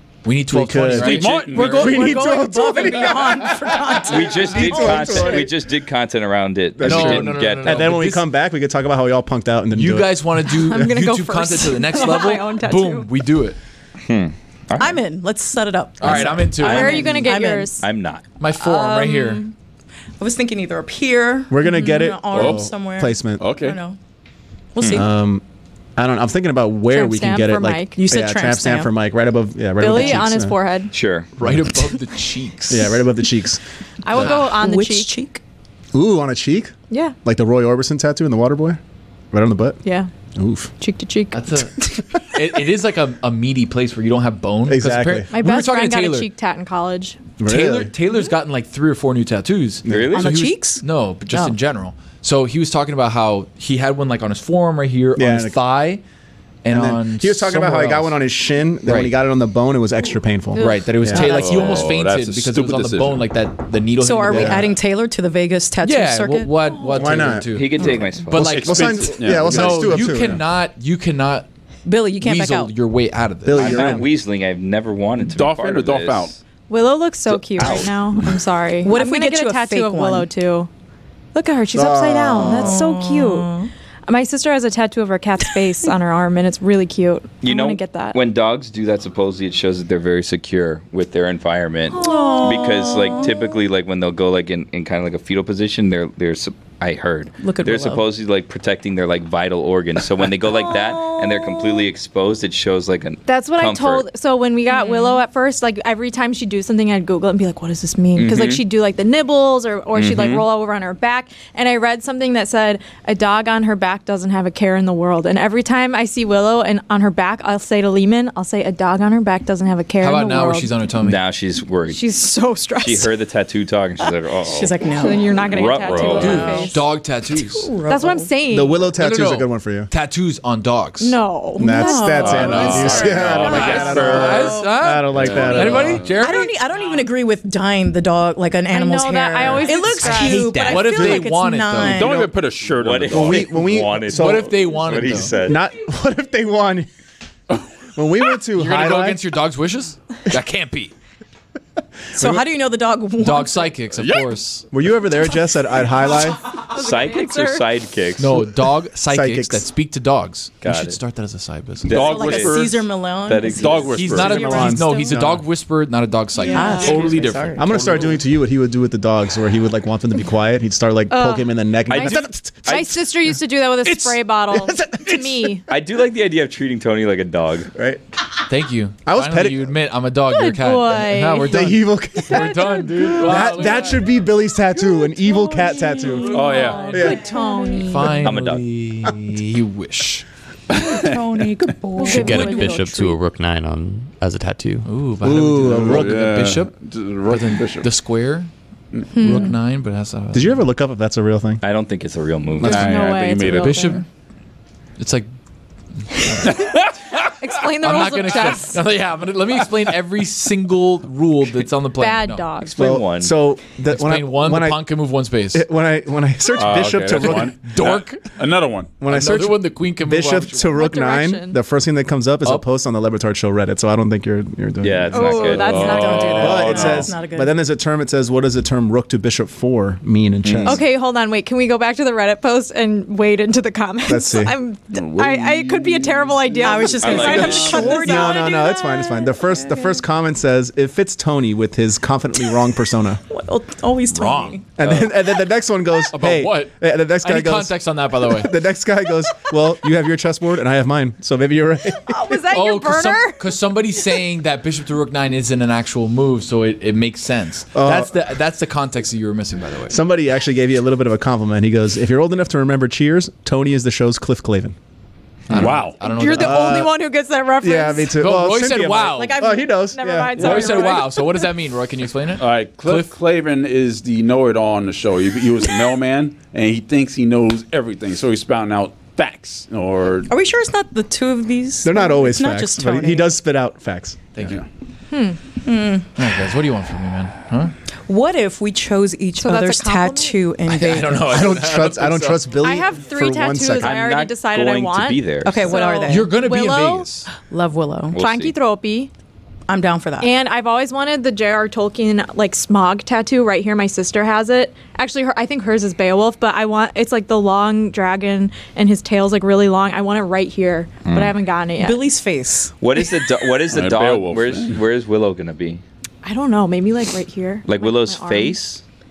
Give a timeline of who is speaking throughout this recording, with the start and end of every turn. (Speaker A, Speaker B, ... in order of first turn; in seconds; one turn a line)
Speaker A: 0.2-2.1
Speaker B: 0.5-5.5
Speaker C: 0.9-2.0
Speaker D: 1.6-3.1
Speaker E: 1.6-5.4
Speaker F: 4.1-8.0
Speaker B: 6.8-10.1
Speaker A: 6.8-8.3
Speaker A: 9.7-13.6
Speaker D: 10.5-13.1
Speaker F: 14.0-15.0
Speaker E: 14.8-17.8
Speaker A: 16.0-17.1
Speaker F: 16.0-18.2
Speaker D: 16.6-17.8
Speaker A: 18.4-19.4
Speaker E: 18.6-19.4
Speaker E: 20.2-24.0
Speaker B: 21.5-23.5
Speaker C: 22.3-22.7
Speaker C: 23.4-23.8
Speaker E: 24.7-25.1
Speaker B: 24.9-25.4
Speaker B: 26.0-30.6
Speaker D: 26.9-28.0
Speaker E: 27.9-28.9
Speaker D: 29.8-30.9
Speaker F: 30.9-31.3
Speaker A: 31.4-33.0
Speaker B: 32.7-33.6
Speaker D: 34.0-35.1
Speaker A: 34.1-34.4
Speaker E: 34.1-35.4
Speaker B: 35.9-36.7
Speaker D: 36.9-37.1
Speaker B: 37.2-38.8
Speaker B: 39.3-39.8
Speaker D: 39.8-40.1
Speaker B: 40.4-40.7
Speaker D: 40.8-41.9
Speaker A: 41.3-46.3
Speaker B: 44.7-45.3
Speaker D: 45.3-47.2
Speaker B: 47.4-47.9
Speaker A: 47.4-56.0
Speaker B: 49.8-50.2
Speaker F: 49.9-50.4
Speaker E: 50.1-51.6
Speaker B: 55.1-55.6
Speaker A: 56.6-58.2
Speaker B: 56.7-61.3
Speaker A: 58.9-59.1
Speaker A: 60.5-64.8
Speaker E: 61.1-61.9
Speaker C: 61.2-63.3
Speaker E: 64.0-66.5
Speaker B: 64.3-64.7
Speaker A: 65.8-71.5
Speaker B: 66.8-67.5
Speaker F: 67.5-68.6
Speaker C: 68.3-70.4
Speaker B: 68.5-70.4
Speaker E: 71.8-72.7
Speaker A: 72.2-74.0
Speaker B: 73.4-74.1
Speaker F: 73.5-76.3
Speaker C: 75.3-76.4
Speaker D: 76.7-80.7
Speaker E: 78.8-80.3
Speaker D: 81.3-83.5
Speaker B: 81.7-82.8
Speaker E: 82.4-83.7
Speaker D: 84.1-88.2
Speaker F: 87.4-104.0
Speaker E: 91.9-93.4
Speaker D: 92.0-92.7
Speaker E: 97.4-98.0
Speaker D: 103.2-120.7
Speaker E: 104.7-105.2
Speaker F: 108.2-108.6
Speaker F: 109.9-110.4
Speaker A: 120.0-121.2
Speaker F: 121.0-122.0
Speaker D: 121.9-123.1
Speaker F: 122.8-126.6
Speaker E: 124.4-126.8
Speaker D: 124.9-126.8
Speaker A: 126.2-127.7
Speaker E: 127.4-128.3
Speaker D: 127.9-128.9
Speaker B: 128.5-129.9
Speaker A: 129.0-131.2
Speaker D: 131.0-133.9
Speaker E: 131.6-134.9
Speaker B: 131.6-136.1
Speaker C: 132.2-134.0
Speaker A: 132.3-136.6
Speaker F: 133.8-134.6
Speaker C: 135.1-136.1
Speaker F: 135.4-135.9
Speaker E: 136.1-142.3
Speaker D: 138.7-141.2
Speaker G: 140.1-140.6
Speaker A: 140.6-142.3
Speaker C: 141.8-143.6
Speaker F: 142.8-145.6
Speaker B: 143.1-146.9
Speaker A: 144.1-145.3
Speaker B: 147.9-149.3
Speaker A: 148.5-150.9
Speaker E: 152.1-153.8
Speaker B: 152.1-152.4
Speaker A: 153.2-154.7
Speaker C: 153.9-154.3
Speaker B: 154.7-156.4
Speaker D: 156.5-157.7
Speaker F: 156.7-158.4
Speaker A: 158.2-162.0
Speaker B: 159.0-159.7
Speaker F: 160.6-161.0
Speaker F: 161.8-162.7
Speaker C: 161.9-162.9
Speaker E: 161.9-165.0
Speaker F: 163.2-164.1
Speaker C: 163.5-164.5
Speaker A: 163.9-168.1
Speaker B: 164.2-165.4
Speaker D: 166.4-167.1
Speaker E: 166.4-167.9
Speaker C: 166.8-168.1
Speaker B: 167.6-172.9
Speaker D: 171.1-175.7
Speaker F: 171.9-172.9
Speaker A: 173.8-174.2
Speaker B: 174.5-175.4
Speaker F: 175.7-177.7
Speaker B: 177.7-178.0
Speaker A: 178.5-184.1
Speaker B: 179.1-179.7
Speaker D: 180.3-181.7
Speaker B: 181.4-186.4
Speaker D: 182.2-183.7
Speaker D: 185.3-188.3
Speaker C: 186.3-187.0
Speaker E: 186.4-187.9
Speaker B: 186.9-187.2
Speaker A: 187.7-190.2
Speaker F: 188.2-188.6
Speaker C: 190.7-191.7
Speaker E: 191.0-192.8
Speaker D: 192.0-193.2
Speaker G: 192.0-194.9
Speaker A: 194.8-198.5
Speaker B: 195.2-196.4
Speaker C: 195.6-197.9
Speaker D: 199.1-199.5
Speaker A: 199.2-200.6
Speaker B: 200.3-201.6
Speaker F: 201.6-203.3
Speaker C: 202.6-204.0
Speaker D: 202.6-204.0
Speaker A: 203.4-204.0
Speaker A: 205.0-205.3
Speaker A: 206.0-206.6
Speaker C: 206.5-206.9
Speaker D: 207.4-208.8
Speaker A: 207.8-212.5
Speaker D: 212.0-212.8
Speaker F: 212.6-213.3
Speaker B: 212.8-214.9
Speaker A: 213.9-215.6
Speaker B: 215.5-217.6
Speaker C: 216.5-219.0
Speaker A: 217.2-218.3
Speaker B: 219.0-225.3
Speaker A: 219.0-220.6
Speaker D: 220.6-221.6
Speaker F: 224.8-226.3
Speaker D: 225.1-226.9
Speaker E: 225.5-227.6
Speaker C: 225.6-227.1
Speaker B: 226.4-230.8
Speaker F: 230.4-230.8
Speaker D: 230.6-239.2
Speaker B: 234.1-234.5
Speaker C: 234.9-236.9
Speaker E: 236.6-240.0
Speaker F: 237.0-238.0
Speaker B: 237.8-243.2
Speaker E: 243.3-244.7
Speaker A: 244.1-244.5
Speaker B: 244.8-252.4
Speaker C: 246.1-246.6
Speaker A: 246.2-246.7
Speaker A: 247.2-248.5
Speaker D: 252.1-253.4
Speaker A: 252.5-260.0
Speaker B: 257.7-258.1
Speaker B: 259.9-264.7
Speaker A: 265.5-266.8
Speaker C: 265.5-266.0
Speaker D: 266.0-268.1
Speaker B: 266.3-266.9
Speaker B: 267.6-271.0
Speaker A: 268.2-269.4
Speaker D: 269.1-271.5
Speaker A: 270.4-273.1
Speaker C: 270.4-270.7
Speaker C: 272.4-280.3
Speaker E: 280.3-283.3
Speaker B: 281.8-284.4
Speaker C: 284.4-284.7
Speaker D: 285.1-285.4
Speaker E: 285.6-286.1
Speaker A: 286.1-287.7
Speaker E: 288.1-291.3
Speaker D: 289.4-290.4
Speaker A: 290.7-292.6
Speaker B: 291.2-294.0
Speaker D: 292.6-297.1
Speaker F: 293.8-295.8
Speaker E: 295.4-296.4
Speaker A: 296.1-297.3
Speaker E: 297.3-298.1
Speaker F: 298.1-298.5
Speaker D: 298.1-299.1
Speaker E: 299.7-300.3
Speaker D: 300.2-312.0
Speaker F: 311.1-311.3
Speaker E: 311.8-312.8
Speaker F: 312.8-315.8
Speaker C: 313.7-314.8
Speaker D: 316.2-318.6
Speaker F: 317.7-318.8